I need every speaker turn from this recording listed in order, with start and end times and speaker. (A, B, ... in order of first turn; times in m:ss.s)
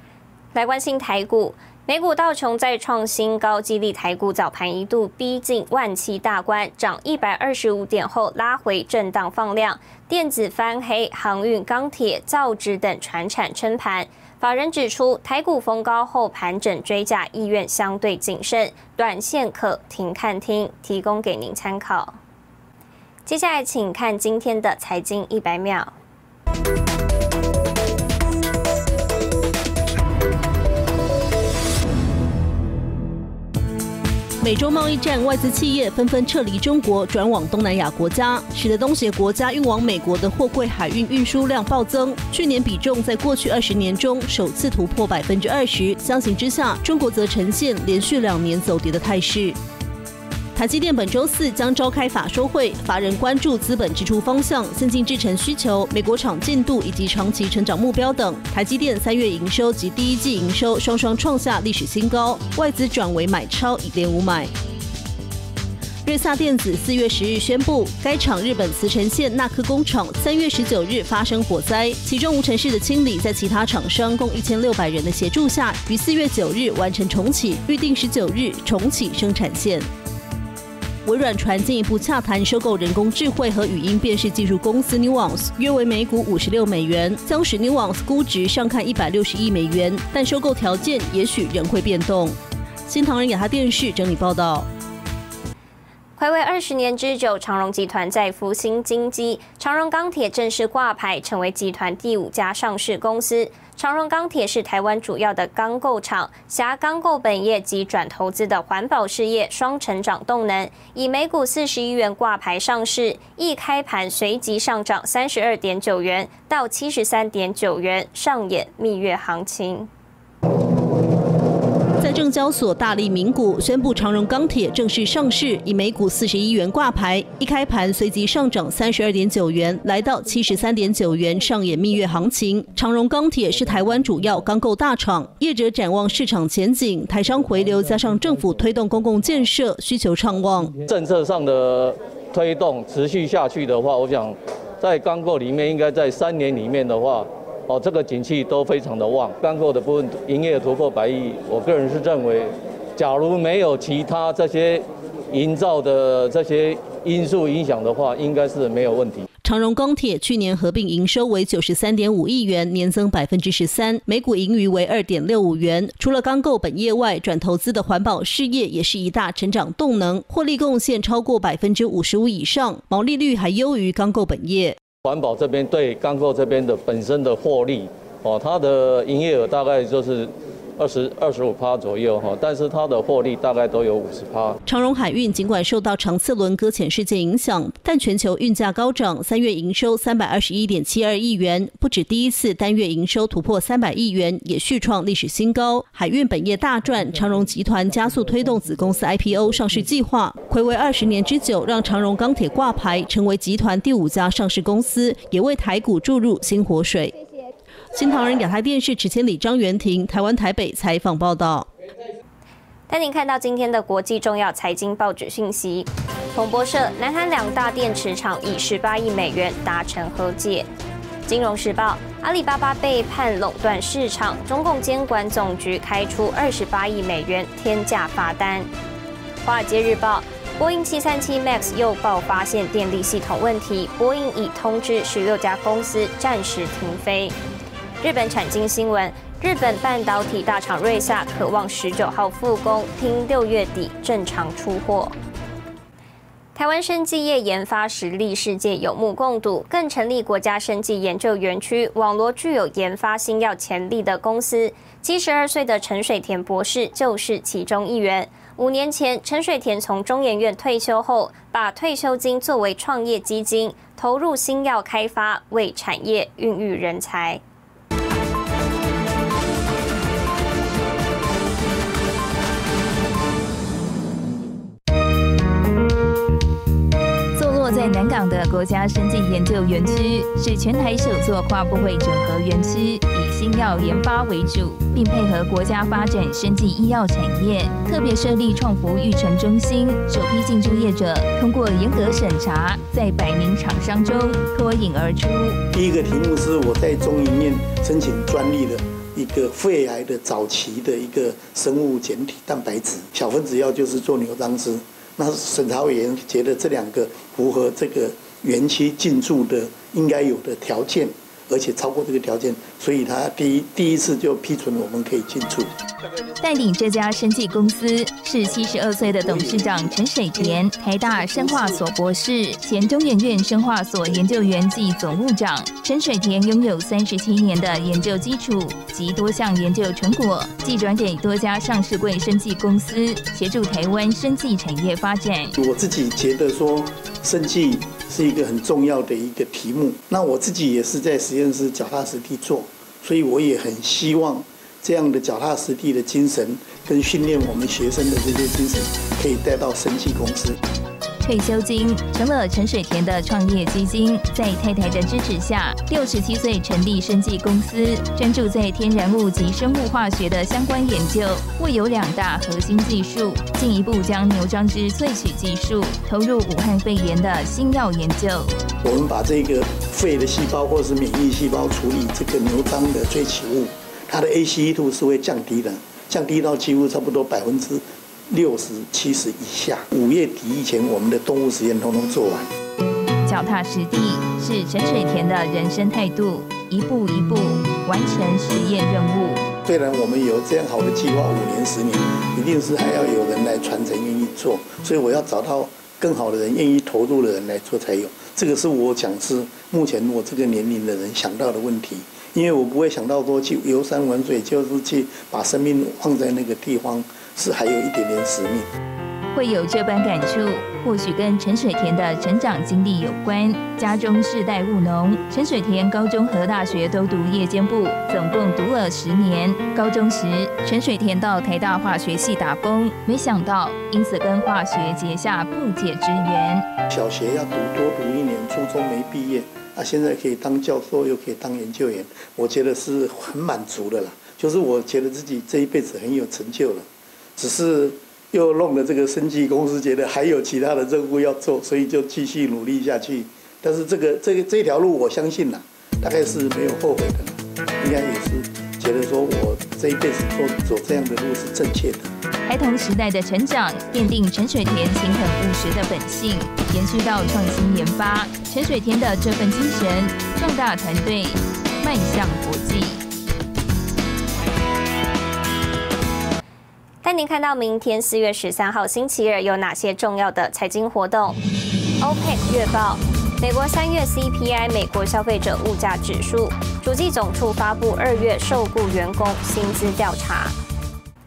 0:00.5-0:22.2 A
0:23.2-0:25.9 A
0:34.4-0:49.6 B
0:50.5-1:04.5 B
1:06.0-1:19.9 B
1:21.0-1:34.7 B
1:36.2-1:59.9 A
2:02.0-2:20.8 B
2:20.8-2:39.2 C
2:39.4-2:54.8 B
2:55.0-3:04.6 C
3:04.7-3:27.1 B
3:27.9-3:31.7 B
3:32.9-3:40.7 A
3:41.3-3:48.7 A
3:49.4-3:57.4 A
3:58.0-4:05.2 A
4:06.5-4:27.4 A
4:37.3-4:55.6 D
4:55.7-5:15.7 E
5:16.4-5:35.6 D
5:18.8-5:21.8 E
5:35.6-5:50.6 E
5:51.2-6:08.5 D
6:08.8-6:22.5 E
6:23.2-6:29.4 D
6:29.6-6:48.7 E
6:49.3-7:06.6 D
7:06.9-7:32.1 E
7:32.4-7:43.0 D
7:47.0-7:51.4 A
7:52.0-8:00.6 A